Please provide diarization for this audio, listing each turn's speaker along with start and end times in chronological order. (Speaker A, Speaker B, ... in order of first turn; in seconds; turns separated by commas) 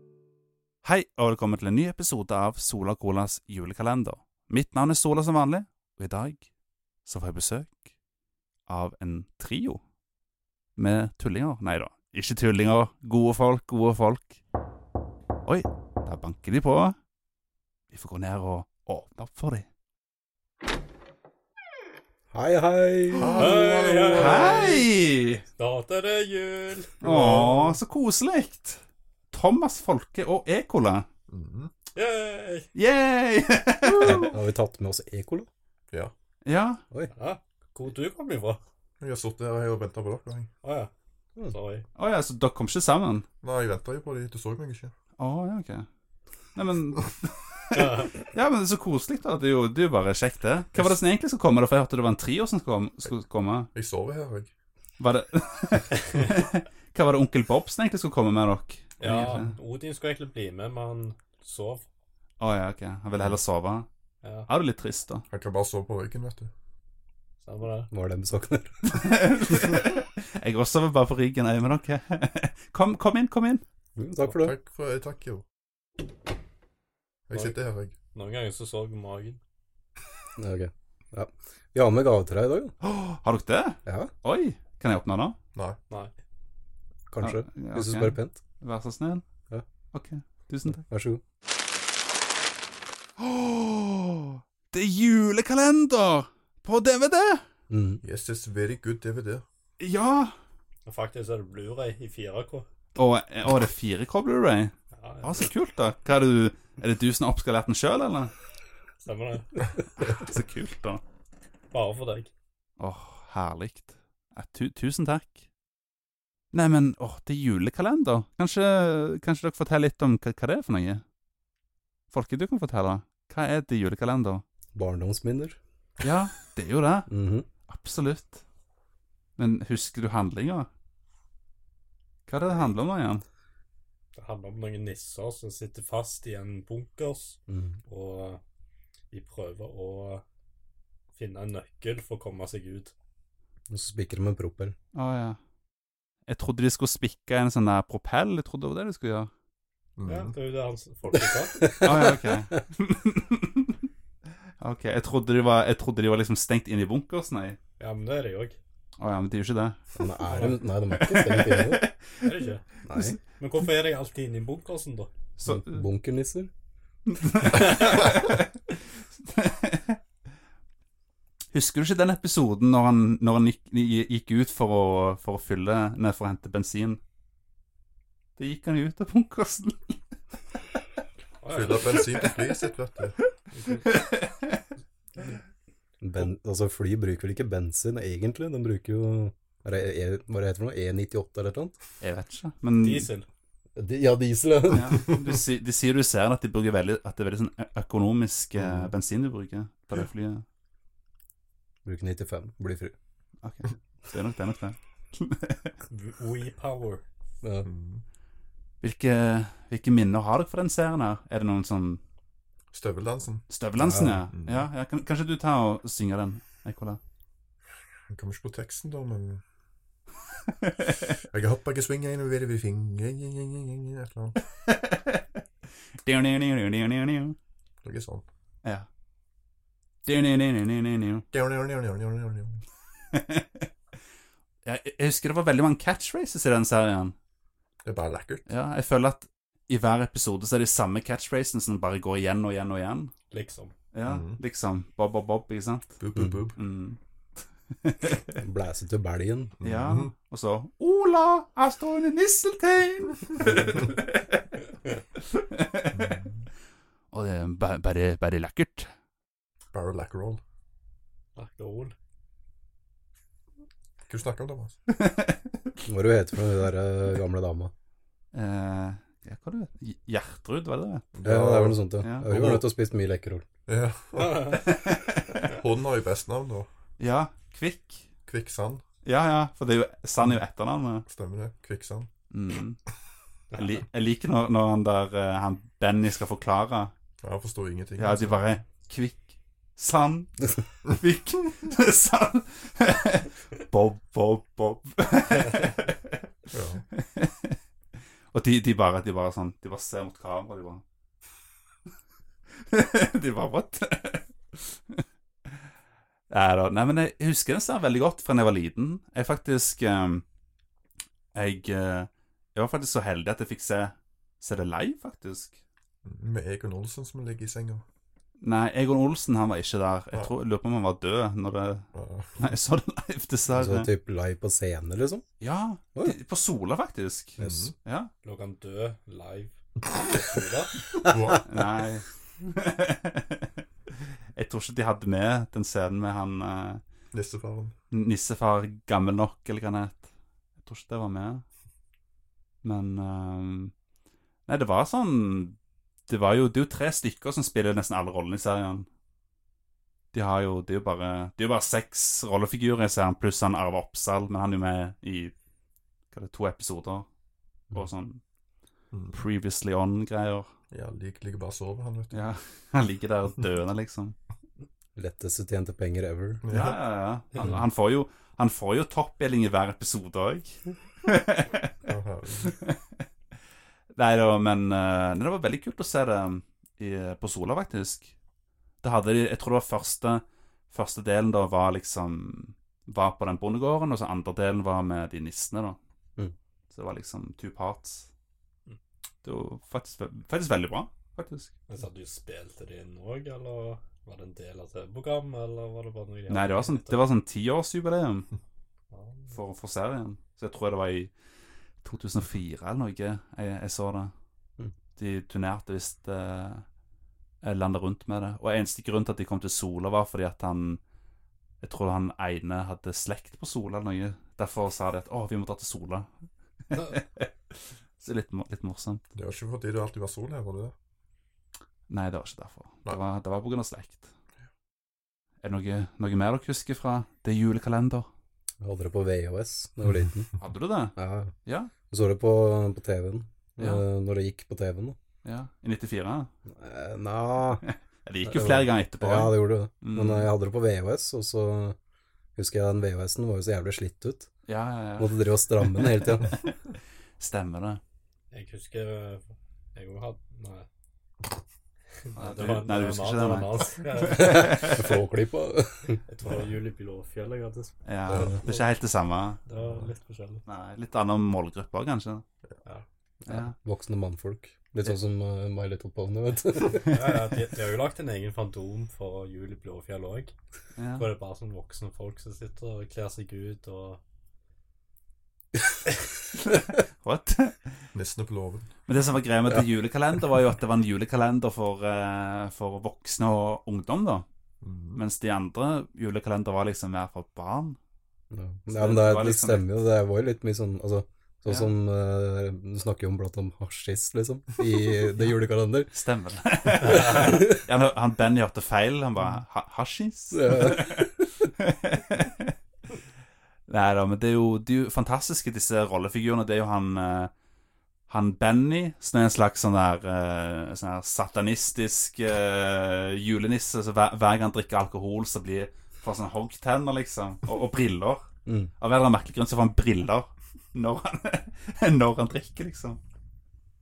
Speaker A: 0.8-6.5, Speaker A: 7.0-7.8, Speaker A: 8.7-9.8, Speaker A: 10.8-14.4, Speaker A: 15.4-16.9, Speaker A: 17.9-19.7, Speaker B: 22.3-23.6, Speaker C: 23.1-24.6, Speaker D: 23.3-27.0, Speaker A: 24.1-25.4, Speaker C: 27.0-27.8, Speaker A: 27.0-31.1, Speaker C: 31.3-31.7, Speaker D: 31.9-32.7, Speaker A: 32.7-34.3, Speaker B: 34.0-35.5, Speaker A: 36.4-36.8, Speaker D: 37.1-38.6, Speaker C: 39.0-40.5, Speaker D: 40.6-40.9, Speaker D: 41.5-41.9, Speaker A: 42.0-43.3, Speaker C: 43.4-44.9, Speaker A: 45.2-45.9, Speaker A: 46.5-53.7, Speaker D: 47.7-48.2, Speaker C: 53.7-54.5, Speaker A: 55.0-59.5, Speaker D: 59.0-61.8, Speaker A: 62.4-63.9, Speaker D: 64.2-64.5, Speaker A: 64.5-65.2, Speaker C: 65.3-66.5, Speaker D: 67.4-67.9, Speaker B: 67.9-68.7, Speaker A: 68.9-73.6, Speaker B: 74.0-74.5, Speaker C: 74.4-75.4, Speaker C: 77.3-77.9, Speaker D: 78.1-79.4, Speaker B: 80.4-82.7, Speaker A: 82.8-85.3, Speaker B: 83.8-84.1, Speaker B: 87.1-88.4, Speaker A: 87.2-89.2, Speaker A: 89.9-90.8, Speaker B: 90.7-91.2, Speaker A: 93.2-97.4, Speaker B: 97.7-98.0, Speaker C: 98.0-99.4, Speaker A: 99.8-100.3, Speaker D: 100.8-102.7, Speaker A: 102.9-108.3, Speaker D: 104.9-105.5, Speaker D: 109.0-109.7, Speaker A: 110.0-111.0, Speaker D: 111.7-112.3, Speaker A: 112.8-115.4, Speaker A: 116.5-121.0, Speaker A: 122.1-124.4, Speaker B: 124.7-125.6, Speaker A: 126.0-127.1, Speaker B: 127.1-127.5, Speaker A: 127.7-128.4, Speaker A: 129.4-130.7, Speaker A: 132.3-133.2, Speaker D: 134.1-138.4, Speaker B: 137.5-137.8, Speaker D: 139.1-140.2, Speaker D: 141.1-142.9, Speaker B: 143.7-144.8, Speaker A: 144.9-145.4, Speaker A: 146.3-149.3, Speaker C: 150.0-150.3, Speaker D: 150.1-151.7, Speaker B: 151.6-152.4, Speaker A: 151.7-153.7, Speaker A: 154.6-157.6, Speaker D: 157.8-158.6, Speaker A: 159.0-162.3, Speaker B: 159.9-161.9, Speaker D: 160.3-160.6, Speaker D: 162.2-162.6, Speaker B: 162.8-163.2, Speaker D: 163.3-165.1, Speaker A: 165.4-165.8, Speaker B: 165.4-166.5, Speaker A: 167.1-170.0, Speaker A: 171.5-177.0, Speaker A: 178.4-180.0, Speaker D: 181.4-181.9, Speaker C: 181.5-183.2, Speaker D: 183.5-183.9, Speaker A: 183.9-184.6, Speaker B: 186.0-191.7, Speaker A: 192.0-193.1, Speaker D: 192.8-193.3, Speaker B: 193.8-195.1, Speaker A: 194.7-200.4, Speaker C: 198.6-198.9, Speaker B: 201.8-202.9, Speaker A: 203.4-205.8, Speaker D: 205.9-207.0, Speaker B: 207.4-207.7, Speaker C: 207.6-208.0, Speaker A: 208.8-212.0, Speaker C: 212.7-214.7, Speaker A: 213.5-217.0, Speaker B: 213.8-214.1, Speaker C: 218.1-219.4, Speaker A: 220.6-221.1, Speaker C: 221.3-224.4, Speaker A: 224.7-225.2, Speaker A: 226.0-227.3, Speaker C: 227.8-228.2, Speaker A: 230.0-231.3, Speaker C: 231.3-232.6, Speaker A: 233.1-233.7, Speaker A: 234.6-237.1, Speaker C: 237.8-238.5, Speaker A: 238.4-243.1, Speaker D: 243.3-243.7, Speaker A: 243.9-245.9, Speaker C: 244.0-244.4, Speaker C: 246.0-246.6, Speaker A: 246.6-247.0, Speaker A: 247.8-248.3, Speaker B: 248.4-249.5, Speaker C: 249.6-250.1, Speaker A: 249.6-254.6, Speaker D: 253.4-253.8, Speaker A: 255.2-256.2, Speaker C: 255.9-256.5, Speaker A: 257.1-258.9, Speaker C: 259.7-260.4, Speaker D: 261.4-261.9, Speaker C: 264.1-264.8, Speaker A: 264.9-265.7, Speaker B: 265.9-267.7, Speaker A: 268.3-271.1, Speaker C: 271.1-272.6, Speaker B: 271.2-273.4, Speaker A: 272.0-272.3, Speaker C: 273.7-274.6, Speaker D: 274.2-274.6, Speaker A: 274.5-275.4, Speaker C: 275.4-276.7, Speaker A: 277.0-278.1, Speaker C: 278.3-278.8, Speaker A: 279.0-281.1, Speaker C: 281.1-282.1, Speaker A: 282.3-282.8, Speaker A: 283.5-286.9, Speaker C: 287.2-288.4, Speaker A: 288.0-296.1, Speaker C: 296.5-296.8, Speaker A: 297.0-297.6, Speaker A: 298.3-300.8, Speaker A: 302.6-305.0, Speaker A: 306.3-310.2, Speaker A: 311.3-315.6, Speaker C: 316.0-317.8, Speaker A: 318.4-323.9, Speaker C: 321.9-322.5, Speaker B: 323.5-325.2, Speaker A: 325.4-328.1, Speaker B: 327.4-327.7, Speaker C: 327.4-327.7, Speaker D: 328.2-330.8, Speaker C: 331.0-331.4, Speaker A: 331.4-333.4, Speaker A: 334.3-336.8, Speaker C: 337.1-337.7, Speaker A: 337.9-340.0, Speaker A: 340.6-341.4, Speaker A: 342.6-343.7, Speaker A: 344.5-345.6, Speaker A: 346.1-348.9, Speaker A: 350.1-355.3, Speaker A: 356.1-357.1, Speaker A: 357.7-358.2, Speaker C: 358.9-359.2, Speaker A: 359.1-360.5, Speaker C: 360.7-362.2, Speaker A: 362.1-364.1, Speaker B: 364.9-366.4, Speaker C: 366.4-366.8, Speaker A: 366.5-371.7, Speaker C: 371.8-372.5, Speaker A: 372.4-373.0, Speaker A: 373.9-378.1, Speaker A: 378.8-385.8, Speaker A: 386.7-388.1, Speaker A: 389.2-391.6, Speaker D: 391.7-397.0, Speaker A: 396.3-398.3, Speaker D: 398.9-399.3, Speaker A: 399.3-401.1, Speaker A: 401.8-404.1, Speaker A: 404.9-406.6, Speaker A: 407.4-410.8, Speaker A: 411.6-416.1, Speaker A: 416.7-417.3, Speaker A: 418.0-419.0, Speaker C: 419.1-420.7, Speaker A: 421.9-424.1, Speaker A: 425.4-428.1, Speaker B: 428.6-430.3, Speaker A: 430.4-431.7, Speaker B: 430.9-431.4, Speaker B: 431.9-435.0, Speaker A: 435.2-436.3, Speaker B: 436.6-437.6, Speaker A: 437.6-440.3, Speaker B: 438.2-441.8, Speaker B: 442.4-444.3, Speaker A: 444.4-446.6, Speaker B: 445.0-446.4, Speaker A: 447.2-447.8, Speaker D: 448.3-450.7, Speaker D: 452.0-454.5, Speaker A: 452.1-454.9, Speaker B: 454.0-456.0, Speaker D: 456.1-458.6, Speaker A: 457.8-459.4, Speaker B: 458.1-458.4, Speaker D: 459.4-460.4, Speaker C: 459.6-459.9, Speaker A: 460.4-462.2, Speaker B: 463.2-467.3, Speaker A: 463.3-463.5, Speaker D: 466.8-470.3, Speaker A: 470.8-471.1, Speaker D: 470.9-474.0, Speaker A: 476.4-477.8, Speaker C: 477.9-478.7, Speaker A: 478.9-484.2, Speaker C: 484.6-485.0, Speaker A: 484.9-487.8, Speaker B: 488.3-495.9, Speaker A: 488.7-489.7, Speaker A: 491.5-491.7, Speaker A: 495.9-502.5, Speaker B: 496.8-497.6, Speaker B: 500.3-501.1, Speaker A: 503.7-507.3, Speaker A: 508.1-518.2, Speaker B: 518.5-518.7, Speaker A: 518.8-523.0